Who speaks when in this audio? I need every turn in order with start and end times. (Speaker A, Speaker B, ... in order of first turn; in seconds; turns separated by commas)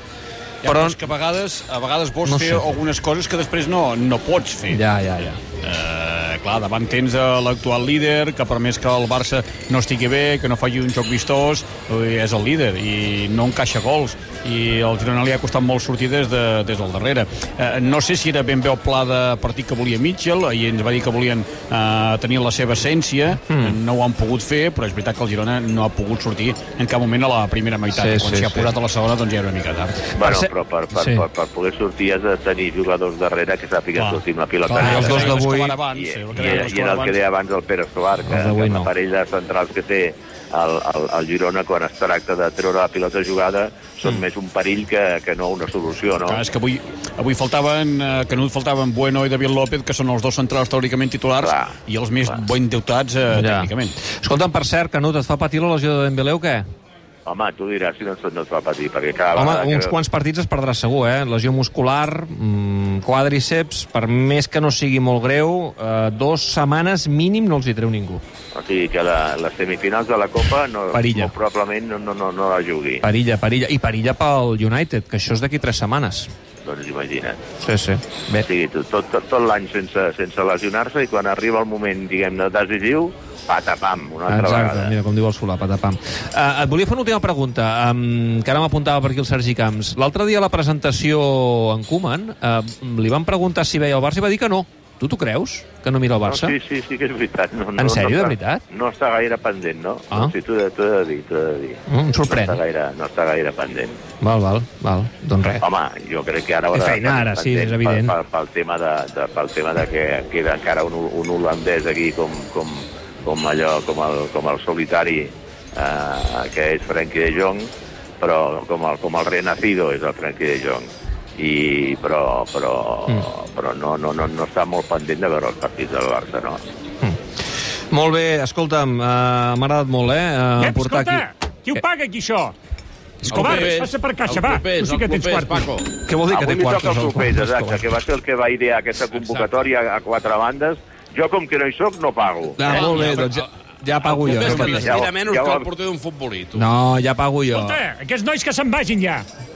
Speaker A: 0.6-4.8, Speaker B: 0.6-1.0, Speaker B: 2.2-2.7, Speaker B: 4.7-5.4, Speaker A: 5.6-30.0, Speaker B: 27.9-28.7, Speaker C: 30.1-46.4, Speaker B: 30.2-31.2, Speaker A: 33.9-37.2, Speaker B: 34.8-35.8, Speaker B: 38.2-38.9, Speaker A: 46.2-53.9, Speaker C: 51.4-51.8, Speaker B: 53.3-56.6, Speaker C: 57.2-60.0, Speaker B: 59.3-68.2, Speaker C: 68.5-73.0, Speaker B: 70.9-71.3, Speaker B: 73.0-76.3, Speaker C: 76.6-77.4, Speaker B: 77.6-78.5, Speaker C: 78.3-84.9, Speaker B: 84.3-96.5, Speaker C: 96.2-104.0, Speaker B: 97.8-98.6, Speaker B: 101.9-102.6, Speaker B: 104.2-105.6, Speaker C: 105.6-126.6, Speaker B: 106.7-108.1, Speaker B: 127.9-131.2, Speaker D: 130.6-132.5, Speaker E: 133.2-135.9, Speaker D: 133.2-135.7, Speaker B: 136.0-137.8, Speaker C: 136.3-142.8, Speaker E: 139.1-139.5, Speaker B: 142.6-144.9, Speaker E: 142.7-143.4, Speaker A: 144.1-144.5, Speaker E: 144.2-146.7, Speaker C: 144.2-145.7, Speaker B: 146.5-147.8, Speaker D: 147.5-149.2